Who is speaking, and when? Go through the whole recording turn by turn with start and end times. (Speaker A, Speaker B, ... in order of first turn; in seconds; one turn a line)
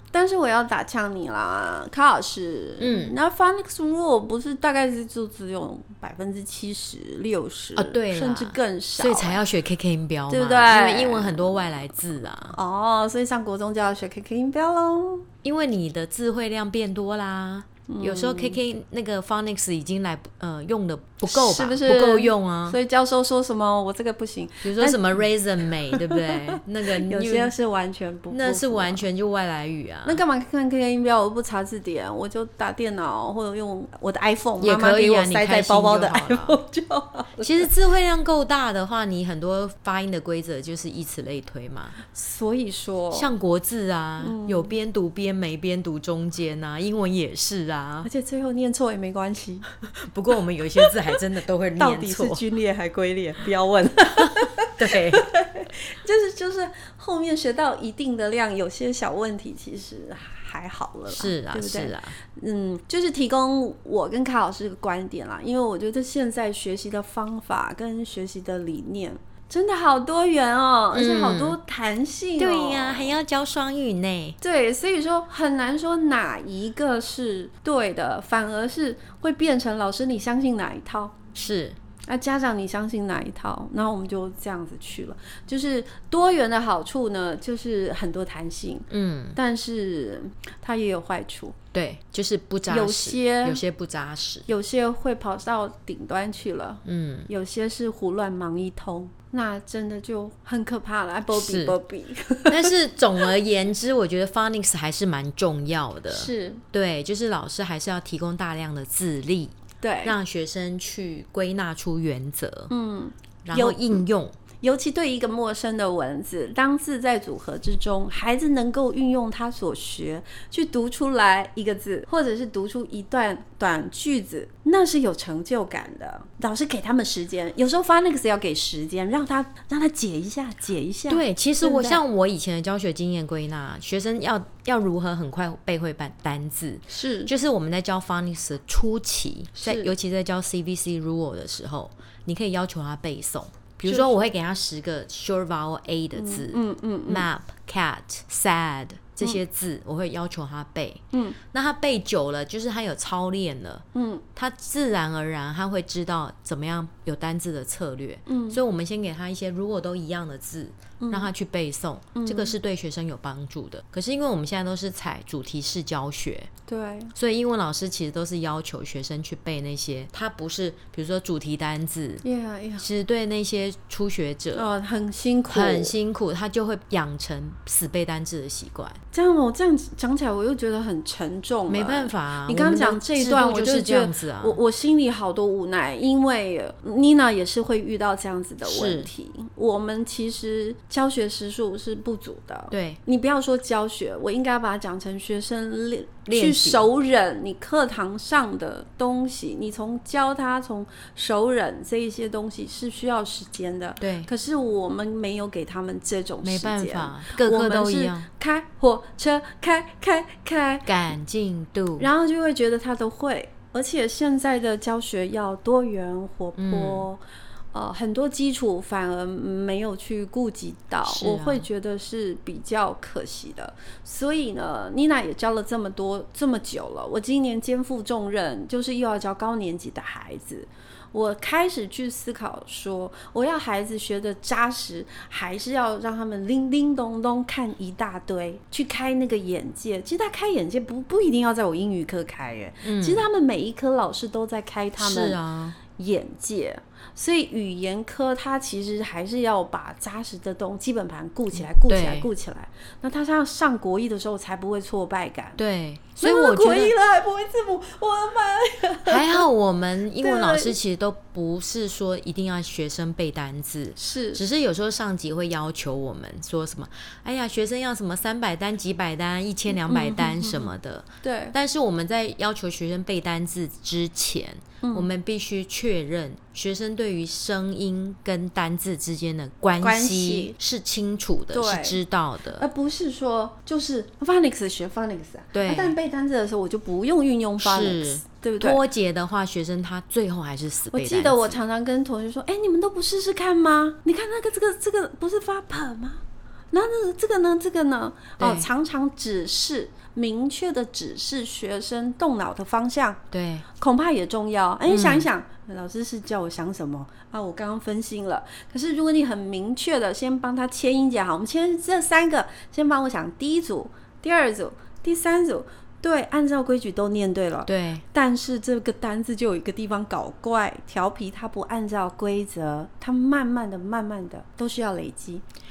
Speaker A: 0.1-9.4
Speaker B: 2.8-3.1
Speaker B: 7.8-12.6
Speaker A: 10.3-11.9
Speaker A: 12.5-15.3
Speaker B: 15.4-22.8
Speaker A: 17.9-18.6
Speaker A: 21.3-25.2
Speaker B: 24.6-27.5
Speaker A: 25.9-29.1
Speaker B: 28.3-30.2
Speaker A: 30.1-37.7
Speaker B: 34.6-36.6
Speaker B: 37.4-42.0
Speaker A: 42.0-43.3
Speaker B: 43.1-48.1
Speaker A: 44.2-44.7
Speaker A: 48.0-49.7
Speaker B: 49.8-52.4
Speaker A: 50.8-51.2
Speaker A: 51.8-73.1
Speaker B: 54.1-55.2
Speaker B: 61.1-62.1
Speaker B: 70.9-71.6
Speaker B: 72.4-74.4
Speaker A: 74.4-81.1
Speaker B: 81.3-81.8
Speaker A: 82.0-91.5
Speaker B: 88.9-89.4
Speaker B: 91.7-94.5
Speaker A: 92.7-93.6
Speaker A: 94.5-102.7
Speaker B: 96.8-97.3
Speaker B: 101.3-101.8
Speaker B: 102.5-112.7
Speaker A: 106.1-106.6
Speaker A: 109.8-110.2
Speaker A: 112.7-114.0
Speaker B: 113.4-114.3
Speaker A: 114.6-132.0
Speaker B: 131.1-166.5
Speaker A: 136.9-137.3
Speaker A: 139.6-139.9
Speaker A: 143.8-144.1
Speaker A: 146.1-147.3
Speaker A: 151.1-151.4
Speaker A: 153.9-154.2
Speaker A: 158.3-158.6
Speaker A: 161.0-161.3
Speaker A: 162.1-162.5
Speaker A: 166.7-167.1
Speaker B: 167.2-172.2
Speaker A: 172.2-172.8
Speaker B: 172.8-174.7
Speaker A: 174.5-175.9
Speaker B: 175.5-179.0
Speaker A: 179.1-210.9
Speaker B: 181.7-184.6
Speaker B: 188.6-189.1
Speaker B: 192.7-193.0
Speaker B: 196.3-196.8
Speaker B: 204.0-204.3
Speaker B: 206.4-208.3
Speaker B: 210.8-212.1
Speaker A: 212.0-217.2
Speaker B: 216.6-217.1
Speaker A: 217.7-245.4
Speaker B: 221.1-221.7
Speaker B: 242.8-243.3
Speaker B: 245.0-245.8
Speaker A: 245.9-255.6
Speaker B: 251.9-252.3
Speaker B: 255.6-256.9
Speaker A: 256.2-259.4
Speaker B: 259.1-282.6
Speaker A: 260.2-260.8
Speaker A: 264.0-264.4
Speaker A: 269.7-270.7
Speaker A: 271.2-271.5
Speaker A: 274.8-275.1
Speaker A: 279.8-280.5
Speaker A: 281.5-282.0
Speaker A: 282.5-288.8
Speaker B: 285.5-285.9
Speaker B: 287.6-291.6
Speaker A: 290.9-303.2
Speaker B: 298.4-298.7
Speaker B: 303.3-303.7
Speaker A: 303.8-325.4
Speaker B: 304.9-305.3
Speaker B: 317.6-318.0